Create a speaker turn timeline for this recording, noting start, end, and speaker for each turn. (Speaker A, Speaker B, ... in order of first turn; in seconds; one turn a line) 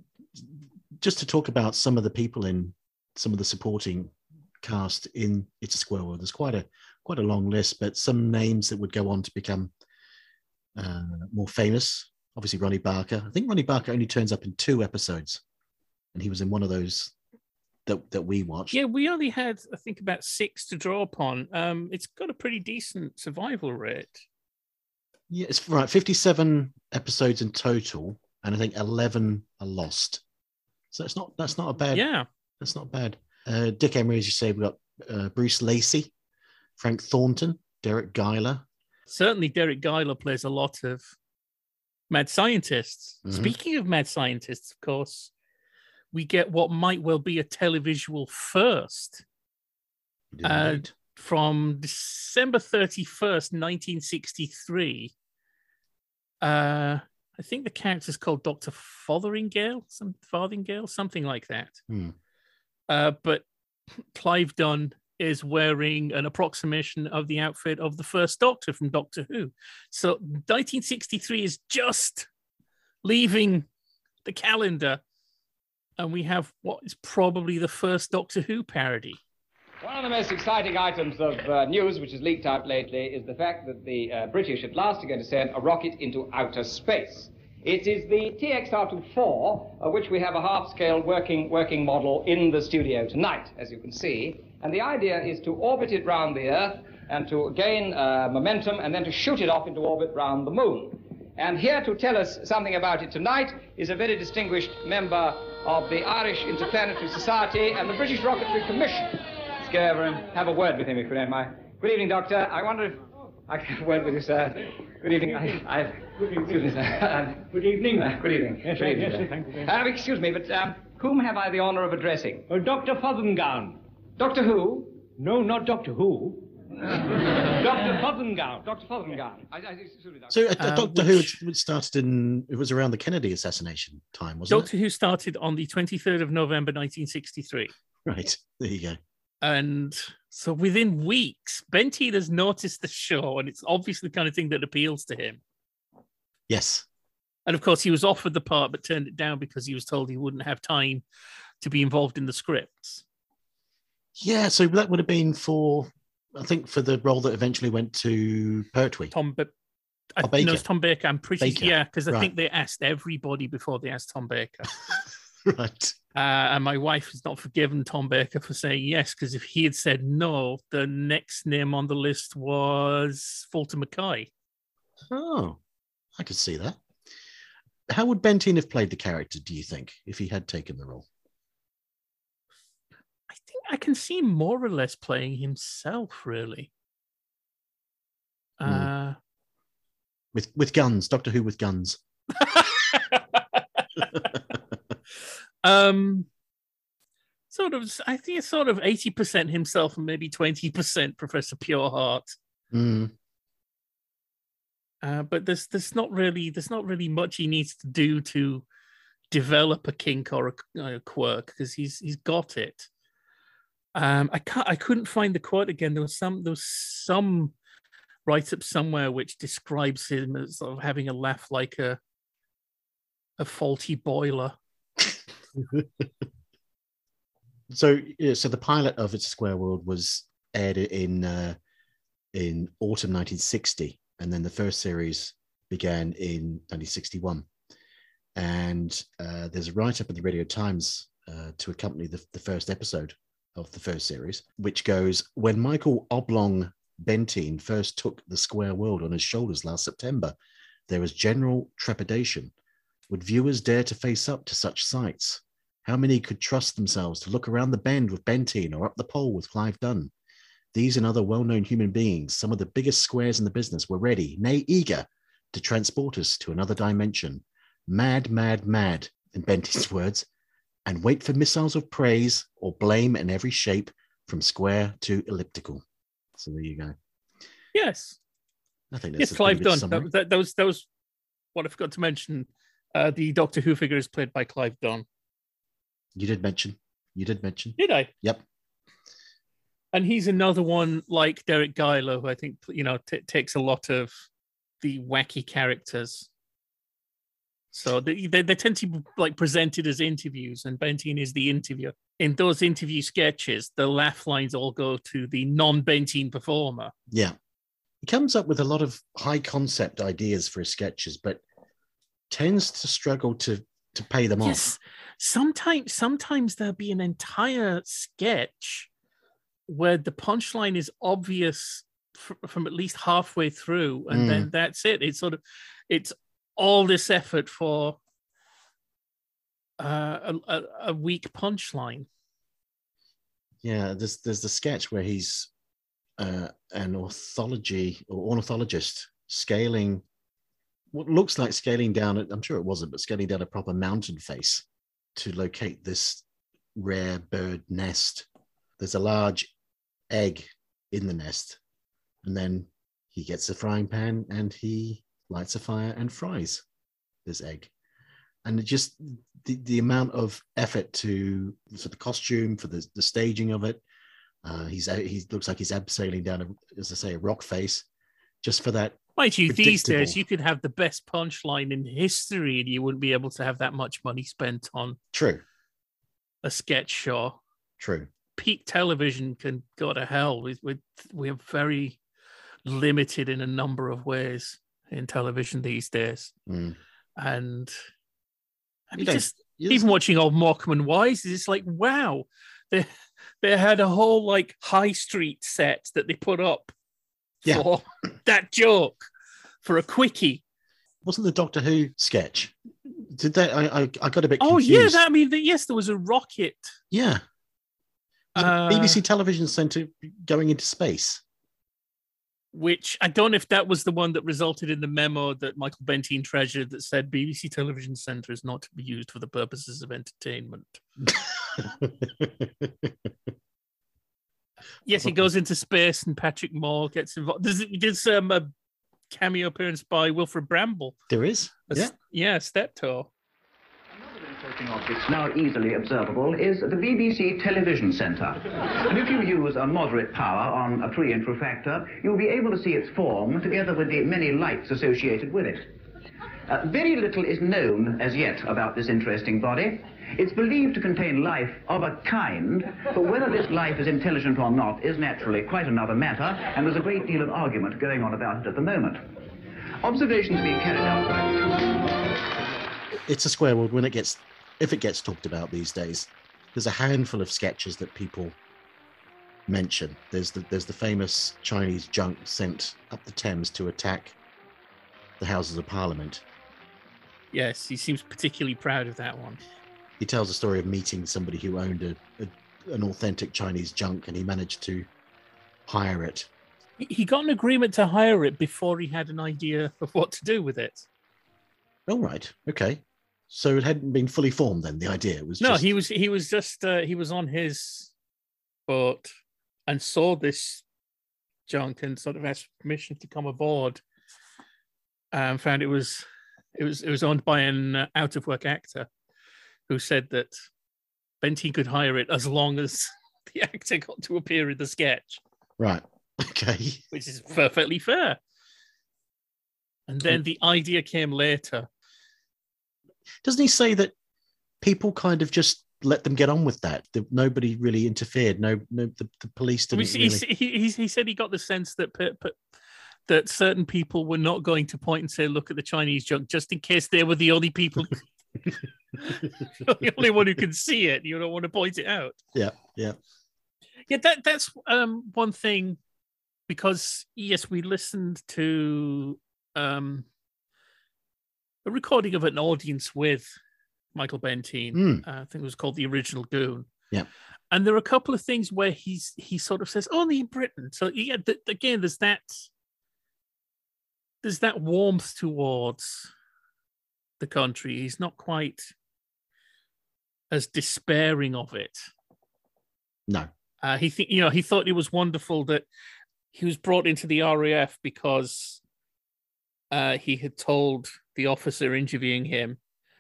Speaker A: 0.4-9.7
Speaker A: 10.8-15.4
Speaker A: 16.1-17.1
Speaker A: 17.9-18.8
Speaker B: 18.7-24.2
Speaker A: 25.3-30.2
Speaker A: 30.9-32.0
Speaker B: 31.9-32.3
Speaker A: 32.6-36.1
Speaker A: 36.8-38.7
Speaker B: 39.1-41.1
Speaker B: 42.1-45.3
Speaker A: 43.2-43.5
Speaker B: 46.1-49.2
Speaker A: 50.3-50.9
Speaker B: 50.4-55.1
Speaker B: 56.4-61.8
Speaker A: 61.9-62.1
Speaker B: 62.9-63.5
Speaker B: 64.0-72.3
Speaker B: 73.0-73.7
Speaker B: 74.2-75.0
Speaker B: 76.0-79.2
Speaker C: 79.8-122.5
Speaker D: 115.3-115.6
Speaker D: 116.2-116.7
Speaker D: 117.5-119.7
Speaker D: 122.5-123.8
Speaker C: 124.2-125.0
Speaker D: 125.2-126.5
Speaker C: 127.5-130.3
Speaker D: 127.5-128.6
Speaker A: 130.3-134.7
Speaker B: 130.6-131.4
Speaker B: 134.5-137.7
Speaker A: 138.1-139.0
Speaker B: 139.4-145.4
Speaker A: 146.5-146.9
Speaker B: 147.5-151.0
Speaker B: 151.6-153.0
Speaker A: 154.2-159.1
Speaker B: 159.1-159.5
Speaker B: 160.2-164.7
Speaker A: 160.2-160.6
Speaker A: 161.4-162.3
Speaker A: 164.9-165.9
Speaker B: 166.1-174.3
Speaker A: 175.1-175.6
Speaker A: 176.2-176.8
Speaker A: 177.9-181.1
Speaker B: 183.3-186.7
Speaker B: 188.6-189.2
Speaker A: 190.3-192.0
Speaker B: 192.4-194.3
Speaker B: 195.6-196.3
Speaker B: 197.5-202.3
Speaker A: 202.7-203.1
Speaker B: 205.0-208.6
Speaker B: 209.3-212.9
Speaker B: 213.9-217.5
Speaker B: 218.3-222.0
Speaker B: 223.4-224.6
Speaker A: 225.6-226.1
Speaker A: 227.7-231.6
Speaker A: 232.3-237.5
Speaker A: 238.4-250.3
Speaker A: 250.9-252.5
Speaker A: 253.1-260.1
Speaker A: 260.7-270.3
Speaker A: 270.9-275.8
Speaker A: 276.4-276.9
Speaker B: 277.7-278.2
Speaker A: 278.9-280.1
Speaker B: 279.2-280.9
Speaker B: 281.6-285.1
Speaker A: 286.2-288.4
Speaker B: 287.8-288.1
Speaker B: 289.9-294.2
Speaker B: 294.8-296.3
Speaker B: 297.7-306.9
Speaker A: 307.1-307.4
Speaker A: 308.0-311.4
Speaker A: 312.3-314.7
Speaker B: 314.4-318.9
Speaker B: 319.7-328.0
Speaker A: 324.1-324.5
Speaker B: 329.8-332.1
Speaker A: 333.6-335.5
Speaker A: 336.2-340.0
Speaker A: 340.9-344.6
Speaker A: 345.2-346.2
Speaker A: 346.7-348.3
Speaker A: 348.8-349.5
Speaker A: 350.1-351.6
Speaker A: 352.2-356.6
Speaker A: 357.3-357.7
Speaker A: 358.4-363.8
Speaker A: 364.4-367.8
Speaker A: 368.4-370.2
Speaker B: 369.2-375.0
Speaker A: 375.1-375.4
Speaker B: 376.4-377.4
Speaker A: 377.8-378.1
Speaker B: 378.4-382.0
Speaker B: 382.7-386.3
Speaker A: 386.5-386.8
Speaker B: 387.2-387.8
Speaker B: 388.9-392.9
Speaker A: 388.9-389.9
Speaker B: 393.4-396.7
Speaker B: 397.5-399.1
Speaker B: 399.6-400.4
Speaker A: 401.0-405.0
Speaker B: 404.4-406.7
Speaker A: 406.9-407.2
Speaker B: 408.4-409.0
Speaker A: 408.4-411.2
Speaker B: 412.5-420.8
Speaker A: 421.0-423.1
Speaker B: 424.9-428.5
Speaker A: 424.9-425.3
Speaker B: 429.1-431.0
Speaker A: 431.1-431.9
Speaker B: 431.7-433.1
Speaker E: 434.3-445.6
Speaker E: 446.5-459.0
Speaker E: 459.8-461.9
Speaker A: 463.1-468.4
Speaker A: 469.5-474.2
Speaker A: 475.2-476.2
Speaker B: 477.3-479.4
Speaker A: 480.0-484.9
Speaker A: 485.7-486.3
Speaker B: 486.8-490.9
Speaker A: 491.9-495.7
Speaker B: 495.4-497.9
Speaker B: 498.7-499.1
Speaker B: 499.7-500.6
Speaker B: 501.5-503.8
Speaker B: 505.1-506.1
Speaker B: 506.6-508.9
Speaker B: 509.7-510.3
Speaker B: 511.2-515.2
Speaker A: 515.6-516.8
Speaker B: 516.9-518.2
Speaker B: 519.9-521.7
Speaker A: 523.2-523.9
Speaker A: 524.6-530.2
Speaker B: 529.7-532.4
Speaker B: 533.1-538.0
Speaker B: 539.0-542.2
Speaker A: 542.3-543.0
Speaker B: 543.9-545.8
Speaker B: 546.5-550.0
Speaker B: 551.6-553.3
Speaker B: 554.0-556.7
Speaker A: 554.7-555.0
Speaker B: 557.5-562.5
Speaker B: 564.2-566.1
Speaker B: 567.2-568.7
Speaker B: 570.3-571.8
Speaker B: 573.6-575.7
Speaker B: 576.3-578.6
Speaker B: 579.7-582.6